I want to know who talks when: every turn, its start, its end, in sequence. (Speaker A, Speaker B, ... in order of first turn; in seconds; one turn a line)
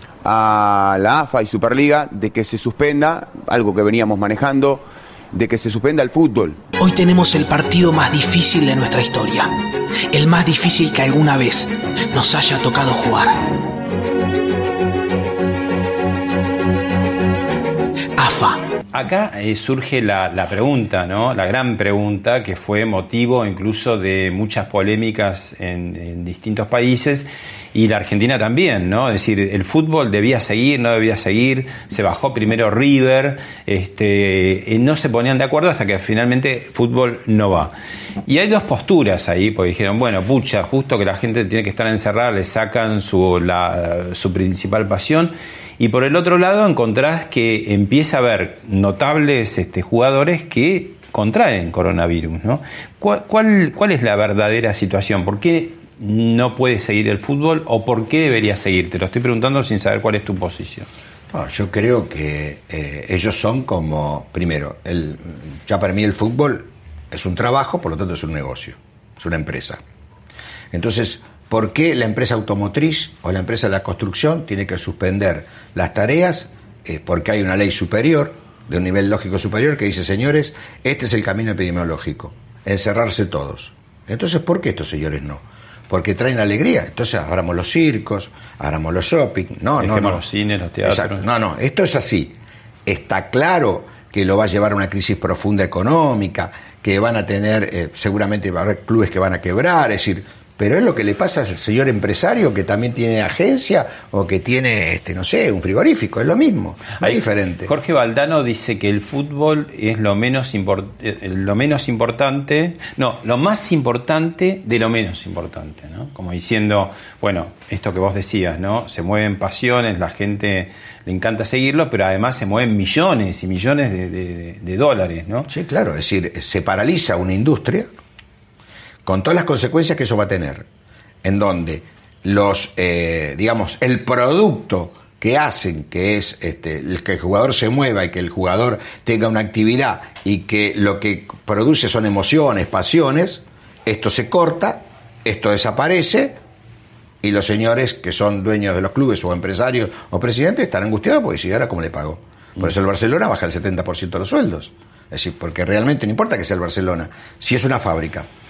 Speaker A: 0.2-6.6
Speaker B: 6.8-9.5
Speaker B: 10.1-13.4
Speaker B: 18.2-18.6
Speaker C: 18.9-37.7
Speaker C: 38.2-60.9
Speaker D: 61.3-69.8
Speaker D: 70.7-90.2
Speaker C: 89.8-91.2
Speaker D: 90.8-107.7
Speaker C: 107.0-125.5
Speaker D: 125.5-127.9
Speaker D: 129.1-130.7
Speaker D: 131.2-146.4
Speaker D: 147.2-158.3